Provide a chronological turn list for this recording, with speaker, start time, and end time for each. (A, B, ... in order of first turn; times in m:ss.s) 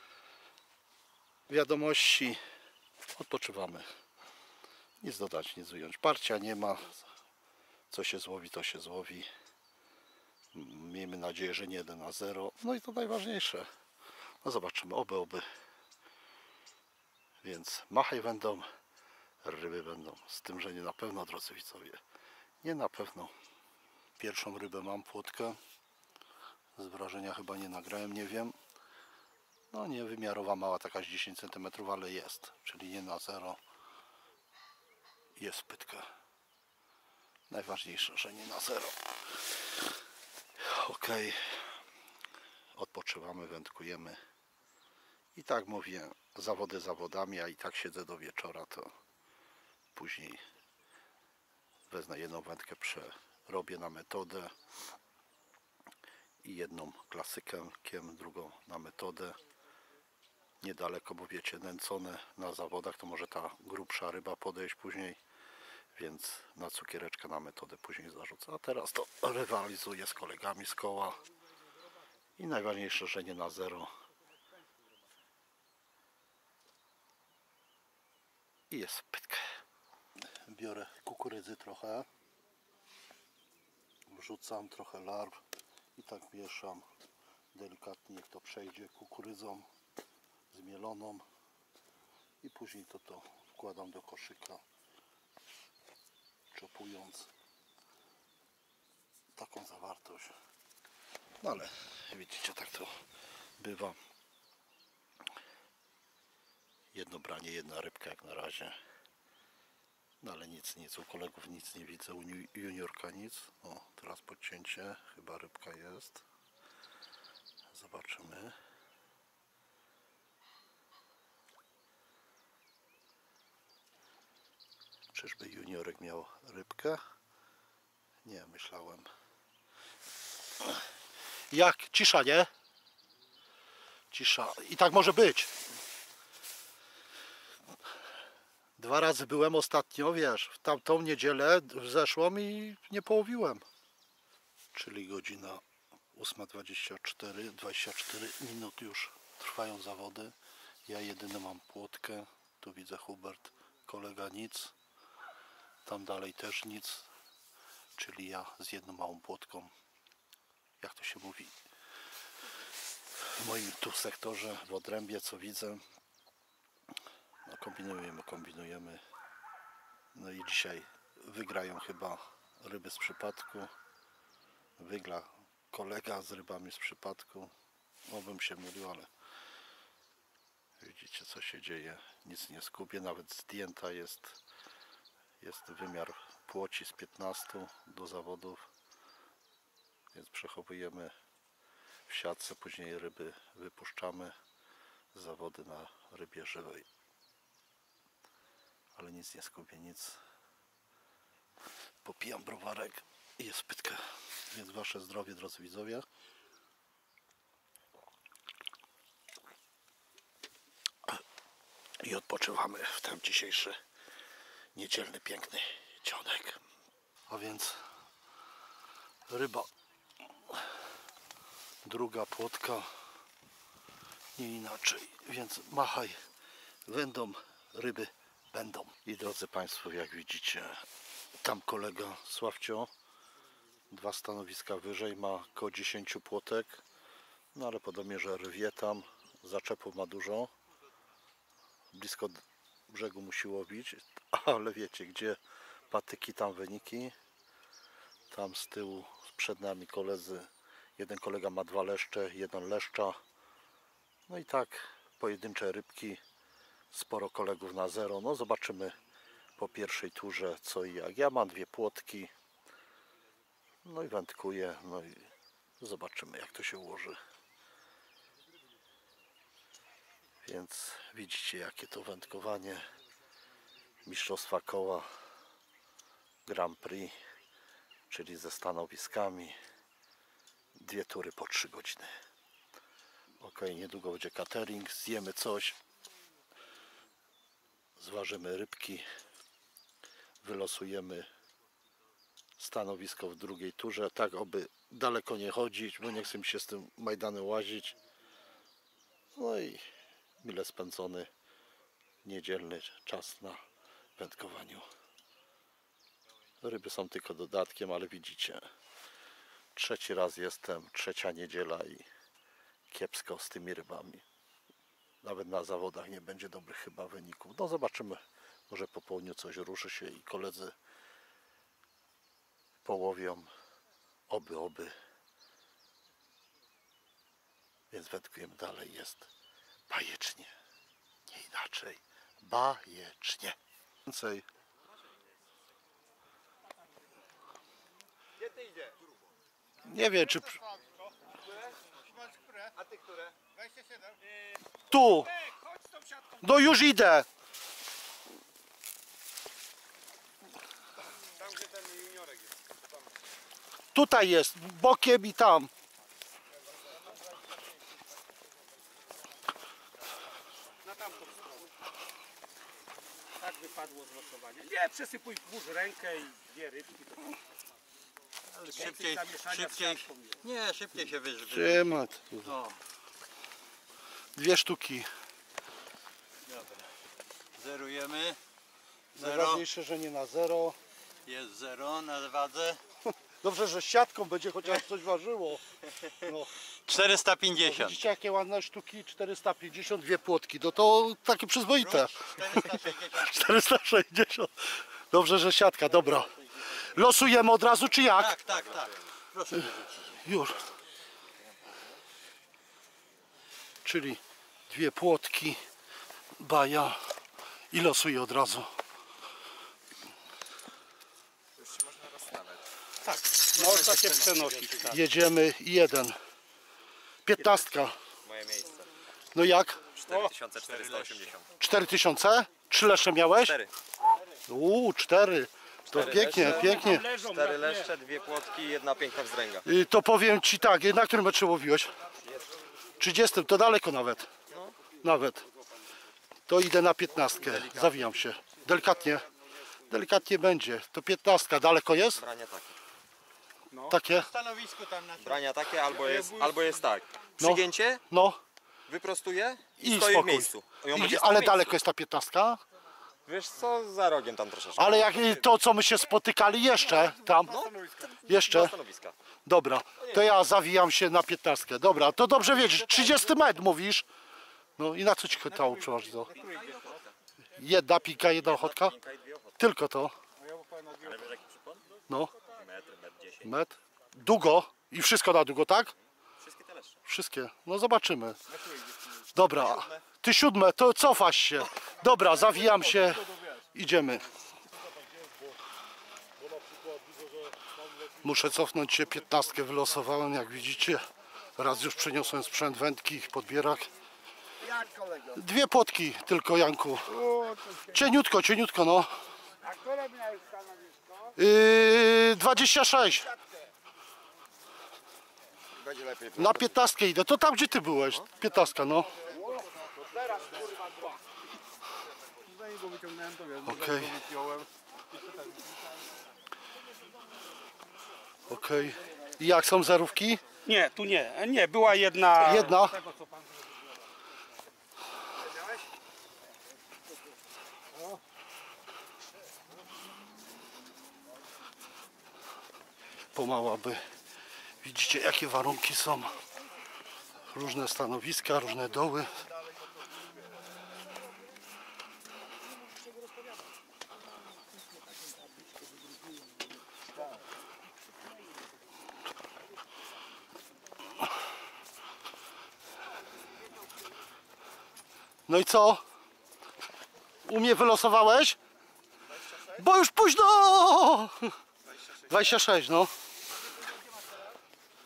0:01.5-0:02.4 A
0:03.1-0:03.9 A
0:05.0-0:07.1 A
0:07.9-0:09.3 A
0:10.5-0:13.7 A
0:14.4-0:15.4 A
0:17.4-0:18.7 A
0:19.4-0:22.0 A
0:22.6-0:23.3 A
0:24.2-0:25.6 A
0:26.8-0:28.6 A
0:29.7-0:33.6 A
0:35.4-0:36.1 A
0:37.5-0:38.9 A
0:40.6-0:41.7 A
0:42.7-0:44.2 A
0:45.3-0:48.9 A
0:49.9-0:50.4 A
0:51.9-0:54.5 A
0:56.4-0:59.4 A
1:00.6-1:05.2 A
1:06.0-1:11.2 A
1:12.4-1:13.9 A
1:18.7-1:19.5 A
1:20.4-1:22.1 A
1:24.1-1:25.4 A
1:26.0-1:26.8 A
1:27.5-1:29.7 A
1:30.5-1:31.2 A
1:32.4-1:34.6 A
1:36.5-1:37.3 A
1:39.4-1:40.3 A
1:41.4-1:42.9 A
1:43.6-1:44.0 A
1:46.9-1:48.8 A
1:50.2-1:56.2 A
1:57.7-1:58.5 A
2:05.1-2:07.0 A
2:08.2-2:09.1 A
2:11.5-2:12.5 A
2:14.1-2:15.5 A
2:18.8-2:23.6 A
2:24.7-2:25.6 A
2:26.1-2:30.3 A
2:30.9-2:34.7 A
2:35.8-2:37.1 A
2:38.0-2:39.7 A
2:40.8-2:41.5 A
2:43.2-2:45.8 A
2:47.4-2:49.0 A
2:50.1-2:53.7 A
2:54.8-2:57.5 A
2:58.1-2:59.1 A
3:00.8-3:04.4 A
3:05.4-3:08.7 A
3:10.1-3:11.1 A
3:12.1-3:14.3 A
3:15.1-3:16.9 A
3:19.0-3:20.2 A
3:22.0-3:26.0 A
3:32.0-3:33.8 A
3:34.7-3:36.6 A
3:37.3-3:37.8 A
3:39.3-3:39.7 A
3:41.8-3:42.9 A
3:44.4-3:46.2 A
3:46.9-3:50.8 A
3:51.4-3:52.9 A
3:53.9-3:56.8 A
3:57.5-4:00.5 A
4:01.9-4:05.4 A
4:05.9-4:07.1 A
4:08.3-4:13.2 A
4:14.3-4:16.2 A
4:16.9-4:19.0 A
4:19.6-4:22.3 A
4:23.8-4:27.2 A
4:30.4-4:32.9 A
4:34.0-4:35.1 A
4:36.4-4:37.2 A
4:38.1-4:39.6 A
4:40.8-4:42.1 A
4:43.4-4:45.8 A
4:48.0-4:49.0 A
4:50.4-4:51.3 A
4:52.6-4:58.0 A
4:59.4-4:59.9 A
5:00.4-5:01.3 A
5:02.2-5:03.6 A
5:04.2-5:04.9 A
5:06.6-5:08.7 A
5:09.7-5:12.1 A
5:12.9-5:14.2 A
5:15.2-5:20.7 A
5:22.8-5:23.5 A
5:24.3-5:25.0 A
5:27.9-5:29.3 A
5:29.9-5:30.5 A
5:31.3-5:34.4 A
5:38.4-5:39.0 B
5:39.8-5:40.6 A
5:41.5-5:44.1 B
5:44.9-5:45.3 A
5:45.3-5:46.4 C
5:46.4-5:47.3 A
5:51.5-5:52.2 B
5:53.9-5:55.7 A
6:00.8-6:01.7 C
6:03.4-6:07.3 C
6:08.5-6:11.8 D
6:08.7-6:10.4 C
6:11.5-6:12.5 A
6:12.4-6:12.8 D
6:14.4-6:15.1 A
6:16.5-6:16.9 D
6:17.6-6:18.4 D
6:19.1-6:20.8 A
6:19.2-6:19.6 D
6:21.2-6:22.8 D
6:23.4-6:25.6 A
6:26.2-6:26.5 A
6:26.8-6:28.0 D
6:27.6-6:36.3 A
6:31.8-6:33.4 D
6:36.9-6:38.4 A
6:38.2-6:40.1 D
6:40.2-6:40.6 A
6:43.8-6:45.6 A
6:46.4-6:47.0 A
6:47.7-6:48.7 A
6:51.6-6:52.6 E
6:53.0-6:56.2 A
6:53.5-6:55.0 C
6:57.2-6:58.0 A
6:58.2-6:58.9 E
6:59.3-6:59.8 A
7:00.0-7:01.5 E
7:01.6-7:03.6 A
7:03.4-7:03.7 E
7:04.5-7:07.0 A
7:05.9-7:09.6 E
7:06.2-7:07.9 C
7:09.6-7:11.9 A
7:13.0-7:14.3 A
7:15.0-7:15.4 A
7:16.5-7:19.2 A
7:17.4-7:18.1 E
7:19.9-7:22.2 A
7:22.1-7:22.8 E
7:23.8-7:24.3 A
7:25.0-7:28.0 E
7:27.4-7:28.4 A
7:28.9-7:31.8 E
7:29.8-7:32.6 A
7:33.2-7:35.4 E
7:34.8-7:37.6 A
7:37.4-7:39.1 E
7:38.2-7:38.8 A
7:39.4-7:44.0 A
7:44.8-7:46.3 A
7:46.3-7:47.1 E
7:47.6-7:48.9 A
7:48.4-7:49.6 E
7:49.6-7:50.2 A
7:51.0-7:51.8 E
7:52.5-7:53.5 E
7:53.4-7:55.9 A
7:56.4-7:57.0 E
7:57.0-7:58.4 A
7:59.3-8:04.2 A
7:59.5-8:00.0 E
8:08.2-8:11.0 A
8:11.6-8:13.9 A
8:14.6-8:15.2 B
8:15.3-8:17.2 A
8:17.2-8:17.8 B
8:17.9-8:19.1 A
8:21.4-8:23.3 A
8:25.8-8:26.6 B
8:26.4-8:29.1 A
8:32.5-8:34.7 B
8:33.6-8:34.2 A
8:38.5-8:40.4 A
8:40.6-8:43.5 C
8:42.4-8:43.0 A
8:45.4-8:45.8 B
8:53.3-8:54.0 A
8:54.8-8:56.4 A
8:57.5-8:59.3 A
9:15.5-9:16.0 A
9:17.4-9:18.6 A
9:19.7-9:21.5 A
9:22.3-9:23.1 A